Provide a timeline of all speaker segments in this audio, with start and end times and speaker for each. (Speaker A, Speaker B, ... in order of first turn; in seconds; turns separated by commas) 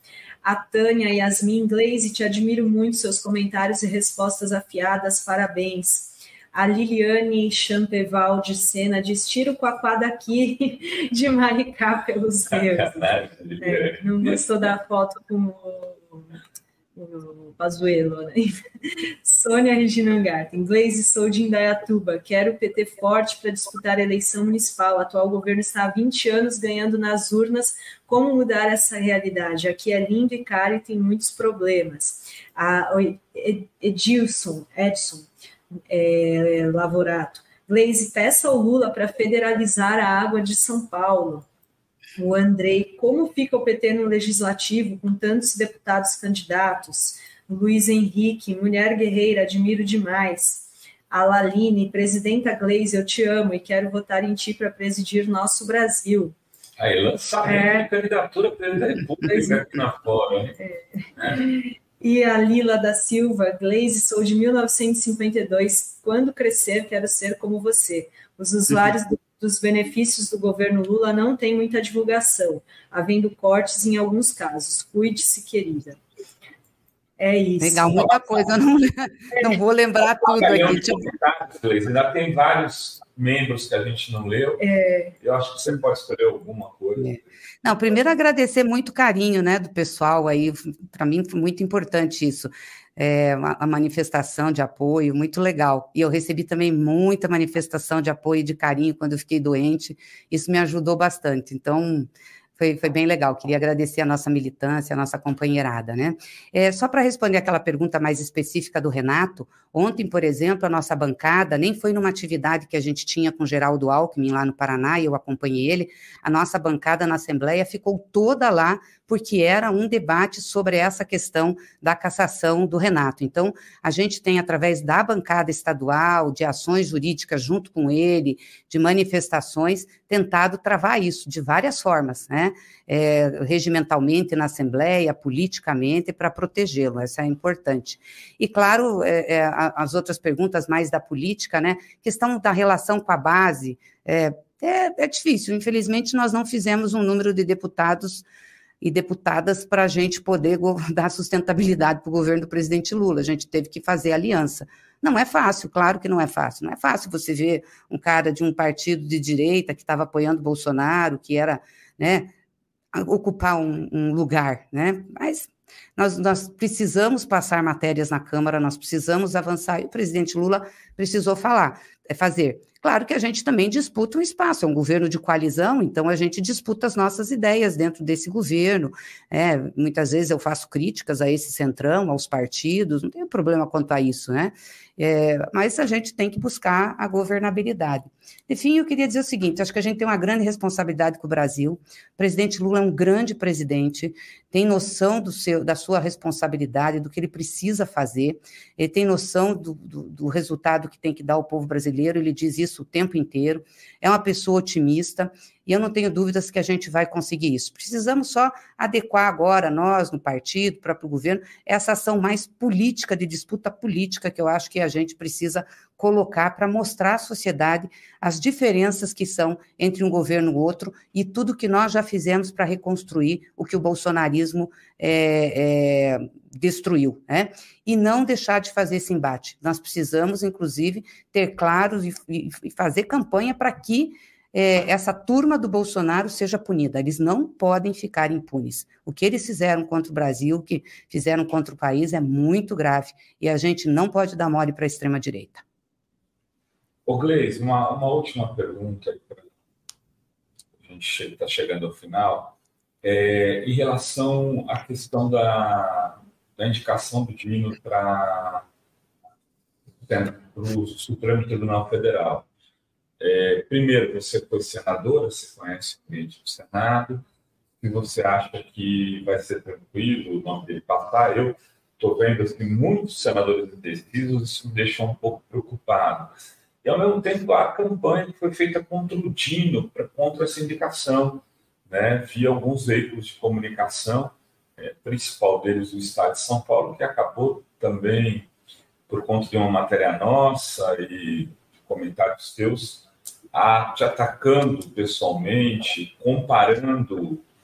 Speaker A: 0.4-16.4, Speaker B: 12.5-14.5, Speaker A: 16.9-35.3, Speaker A: 35.9-41.5, Speaker A: 42.2-56.3, Speaker B: 56.8-60.6, Speaker A: 57.4-57.9, Speaker A: 59.3-59.6, Speaker A: 60.6-76.0, Speaker A: 77.2-78.1, Speaker C: 77.6-81.1, Speaker B: 80.2-84.6, Speaker A: 84.6-85.1, Speaker B: 85.2-87.1, Speaker C: 87.0-148.2, Speaker C: 148.8-162.3, Speaker C: 162.9-245.6, Speaker B: 247.1-249.4, Speaker B: 250.8-258.6, Speaker B: 260.0-262.5, Speaker B: 263.2-267.2, Speaker B: 267.8-276.3, Speaker B: 276.8-288.5, Speaker B: 289.1-297.4